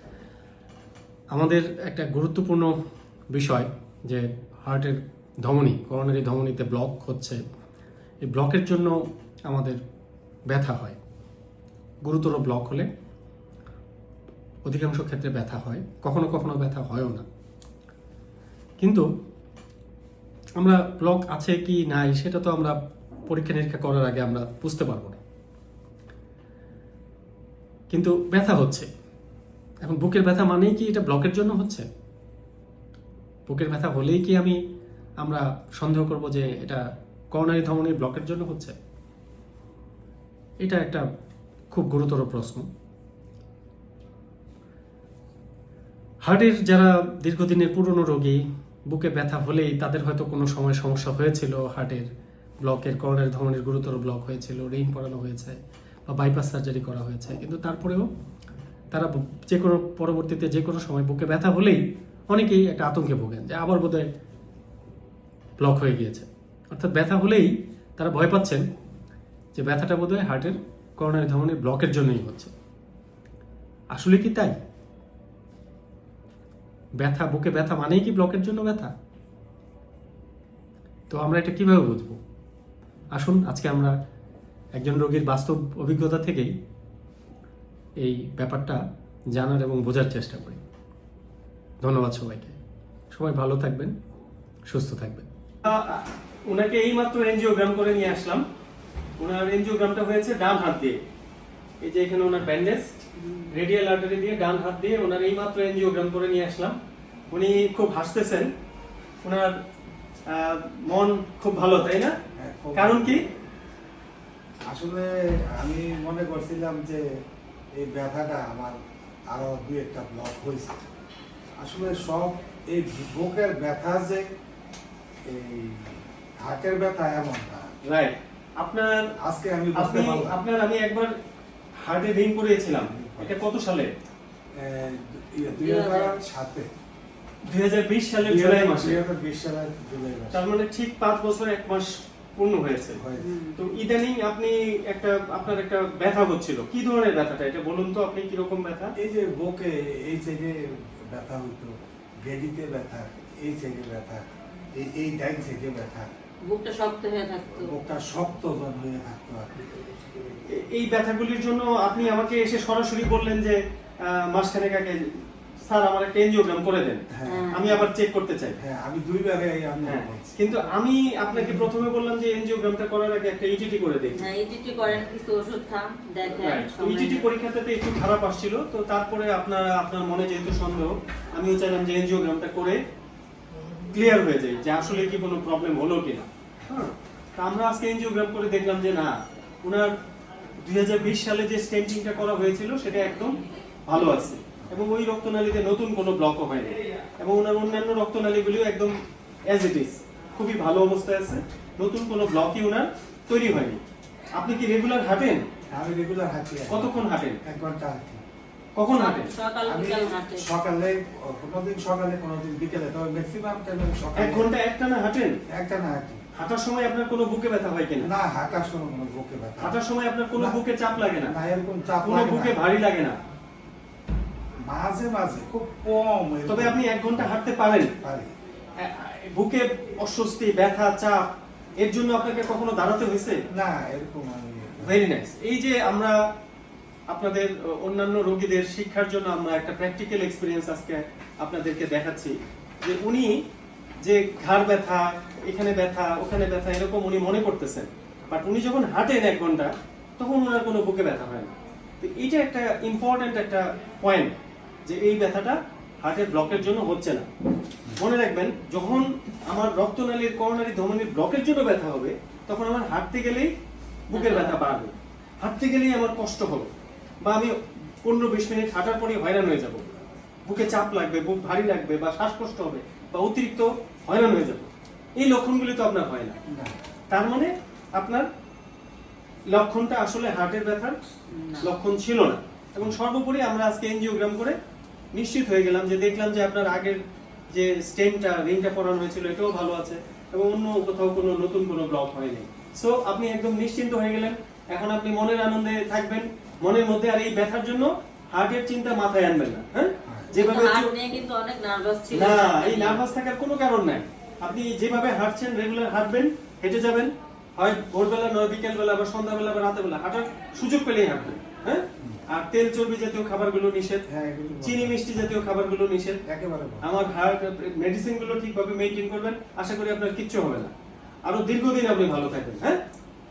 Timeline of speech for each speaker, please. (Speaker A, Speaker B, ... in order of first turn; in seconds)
Speaker A: 1.3-2.8, 3.3-7.4, 8.2-9.8, 10.5-11.0, 12.0-12.9, 14.7-17.2, 18.8-19.1, 20.6-22.8, 23.3-25.2, 27.9-28.9, 29.8-31.9, 33.5-34.6, 35.2-38.7, 40.6-41.0, 41.7-42.7, 46.2-52.1, 52.6-58.1, 58.9-64.1, 65.6-68.6, 69.5-72.5, 73.9-74.6, 77.0-78.9, 81.1-82.2, 83.1-83.9, 84.8-86.5, 88.0-88.8, 89.3-90.6, 91.8-92.6, 93.1-93.9, 94.7-98.4, 99.2-101.0, 101.8-103.0, 103.5-106.8, 107.3-108.5, 109.2-109.6, 110.3-112.2, 112.8-113.2, 127.8-129.1, 129.8-131.1, 131.8-133.9, 137.5-139.0, 140.3-143.0, 143.6-148.9, 160.5-165.1, 165.6-168.6, 169.9-174.2, 176.4-182.8, 183.9-189.9, 190.6-199.0, 199.5-203.8, 204.4-205.4, 206.7-207.4, 208.8-209.3, 214.2-215.4, 216.3-218.1, 219.6-221.3, 222.0-223.2, 226.5-227.9, 228.8-231.3, 231.8-233.4, 234.8-236.2, 237.1-243.4, 244.0-254.3, 254.8-257.2, 258.0-263.5, 264.1-266.7, 267.2-269.9, 270.4-276.4, 277.1-278.3, 279.5-281.0, 281.6-284.6, 285.1-300.9, 302.1-314.0, 314.6-316.2, 316.8-320.7, 321.2-322.8
Speaker B: 112.4-113.2, 114.7-117.0, 117.8-118.8, 119.3-120.8, 121.6-124.3, 125.2-127.7, 129.2-130.4, 132.7-133.4, 134.6-136.7, 138.2-140.4, 143.0-143.3, 149.0-156.1, 157.6-160.2, 167.1-167.5, 168.6-170.3, 205.7-208.2, 209.6-214.5, 215.5-216.2, 218.0-219.8, 221.2-222.6, 224.6-227.3, 228.0-228.3, 233.5-235.0, 276.5-276.7, 300.0-300.3, 314.1-315.0, 316.2-316.8
Speaker C: 135.6-136.2, 143.2-143.6, 156.5-157.7, 167.2-167.8, 174.2-177.2, 208.9-210.5, 264.1-264.6, 281.3-281.7, 300.4-303.0